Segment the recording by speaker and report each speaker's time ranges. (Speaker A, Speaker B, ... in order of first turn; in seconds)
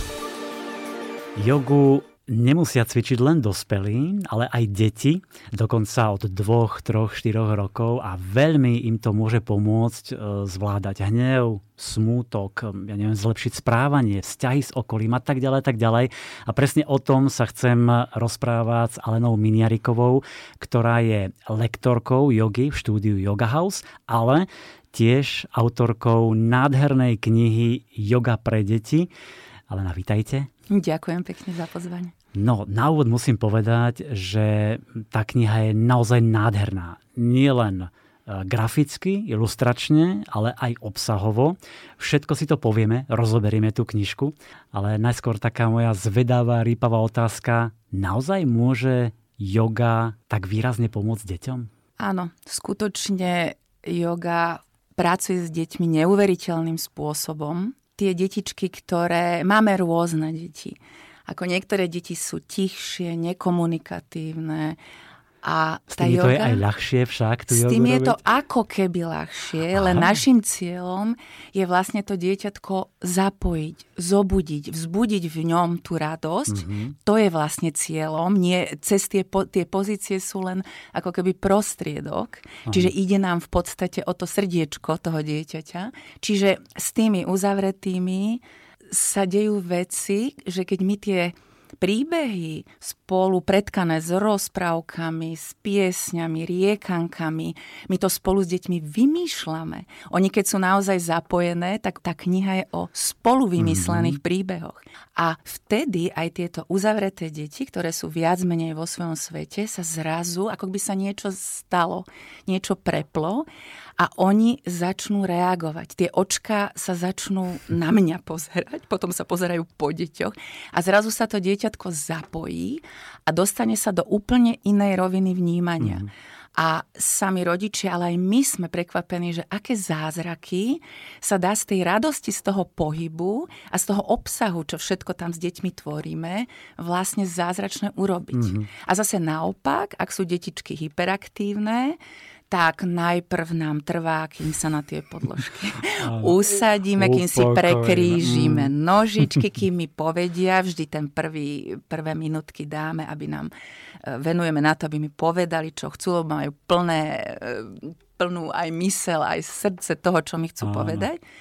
Speaker A: 1.4-29.1, 29.7-30.5, 32.3-51.7, 65.9-68.2, 69.7-70.2, 76.5-76.9, 82.7-82.9, 103.6-104.2, 125.8-126.1, 138.3-138.7, 146.0-146.4, 147.0-148.7, 160.6-161.1
Speaker B: 30.7-32.1, 52.0-64.8, 65.4-66.6, 67.5-113.5, 114.0-142.0, 142.5-153.5, 154.0-161.2